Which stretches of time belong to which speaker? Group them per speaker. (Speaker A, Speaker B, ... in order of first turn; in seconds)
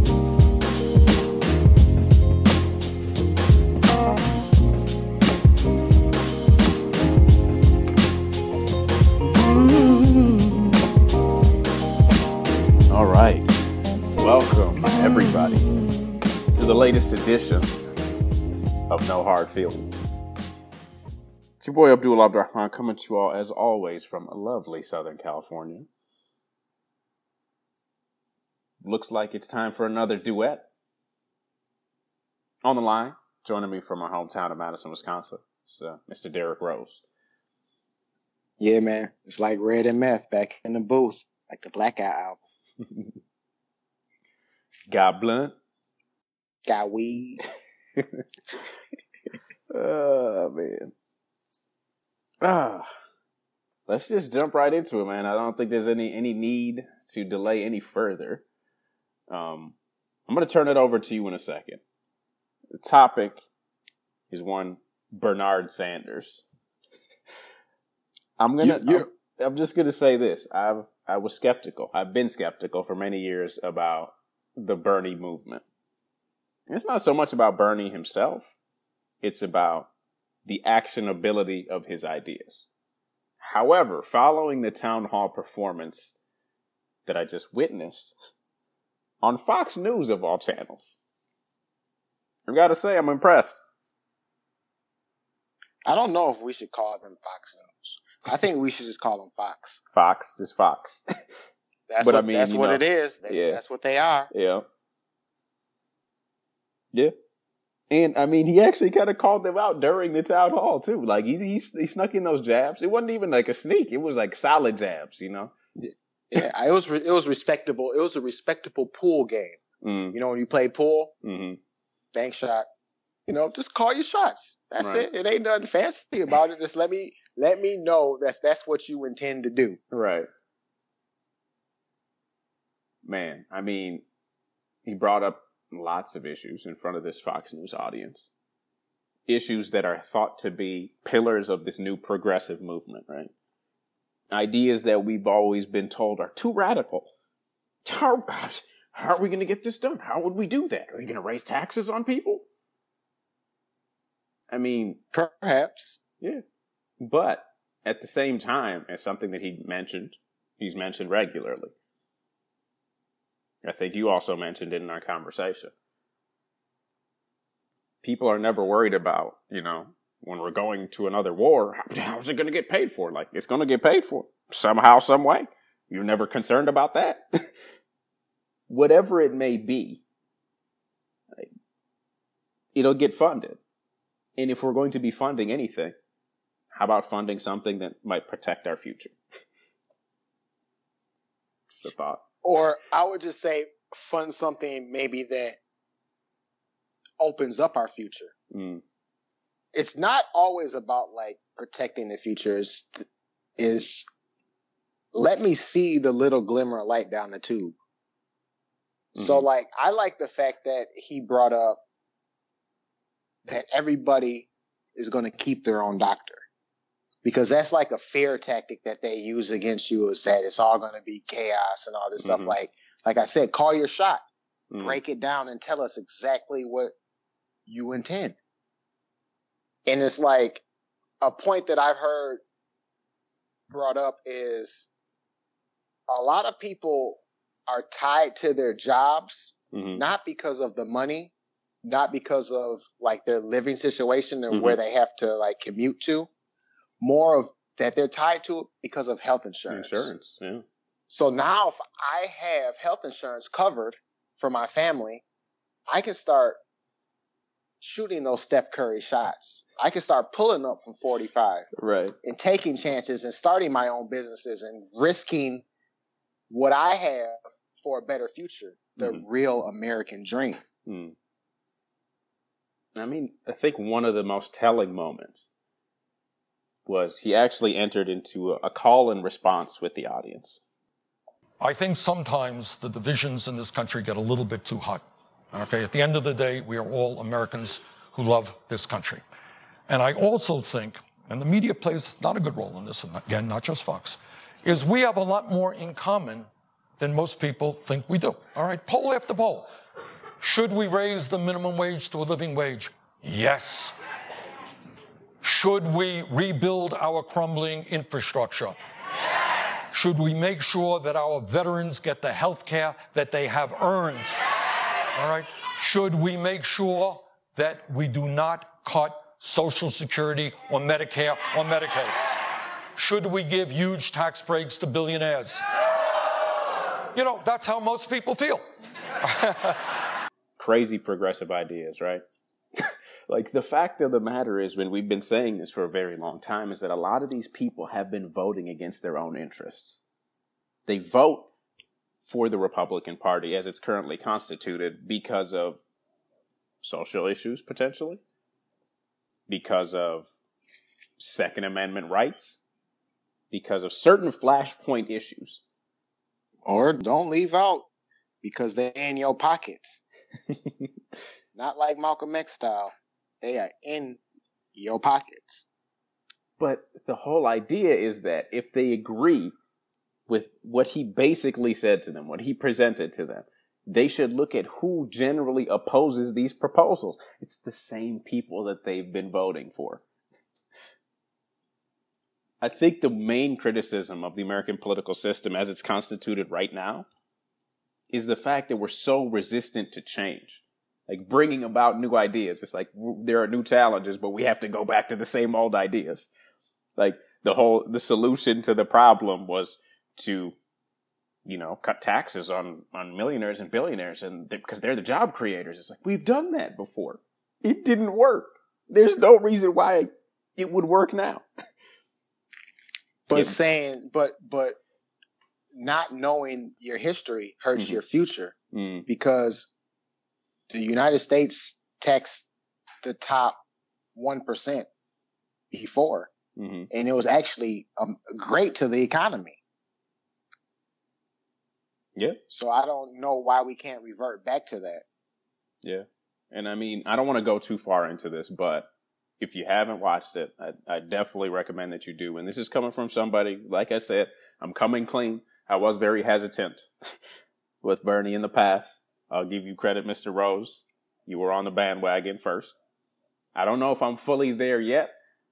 Speaker A: 12.9-13.6, 14.2-15.7, 16.5-17.7, 18.9-20.1, 21.6-25.9, 28.8-30.6, 32.6-37.0, 44.9-45.5, 48.0-48.2, 49.7-50.9, 52.4-52.9, 53.9-58.4, 59.3-59.7, 60.3-61.8, 62.7-63.4, 64.3-66.4, 68.4-75.6, 76.7-78.5, 79.2-79.9, 80.5-82.7, 83.4-86.2, 87.0-88.1, 89.2-90.9, 92.5-93.6, 99.9-101.0, 102.0-103.6, 104.3-104.6, 107.9-115.5, 119.8-120.2, 121.2-121.6, 124.8-125.0, 129.9-130.3, 133.0-134.0, 134.8-138.3, 139.3-143.3, 144.3-147.1, 147.8-152.4, 154.5-155.0, 157.0-161.7, 163.6-165.7, 168.0-177.5, 178.7-180.0, 182.7-183.6, 184.4-185.9, 186.7-189.2, 191.7-192.2, 198.5-198.8, 209.2-209.4, 222.2-222.5, 224.7-225.0, 239.7-240.0, 244.5-244.8, 249.7-250.6, 261.8-262.1, 270.9-271.1, 272.9-275.4, 276.9-280.6, 330.6-332.2, 332.8-340.0, 340.9-341.5, 342.2-345.8, 346.8-348.2, 349.5-350.3, 351.2-352.6, 353.5-355.6, 366.6-369.5, 370.3-380.0, 382.6-387.1, 388.1-396.3, 397.0-400.5, 401.4-411.4, 417.8-418.0, 418.7-419.0, 426.6-426.9, 435.8-438.9, 439.4-446.9, 447.8-452.8, 453.5-455.1
Speaker B: 38.6-42.4, 46.6-47.4, 68.6-69.1, 95.8-99.8, 101.9-104.3, 115.8-119.6, 120.1-121.1, 122.1-122.7, 123.3-129.8, 155.1-156.0, 192.4-195.6, 197.2-198.3, 199.7-203.0, 203.6-204.1, 205.1-207.7, 209.1-211.8, 213.4-216.4, 217.2-224.2, 224.8-226.9, 227.7-228.4, 229.9-230.6, 231.2-232.4, 233.7-234.9, 236.1-241.3, 241.8-246.3, 247.0-250.1, 251.1-255.2, 255.9-256.6, 257.8-261.6, 262.2-265.6, 266.5-270.6, 356.6-357.9, 358.4-360.0, 361.5-362.9, 363.4-364.2, 364.7-365.6, 413.3-414.8, 415.7-418.5, 419.1-419.7, 420.7-422.5, 423.0-423.6, 424.1-424.9, 425.7-426.3, 426.9-429.6, 432.5-435.0
Speaker C: 281.6-289.2, 289.9-299.7, 300.4-303.9, 305.4-308.8, 309.9-314.4, 315.1-322.2, 322.9-325.6, 327.1-328.6, 329.2-329.8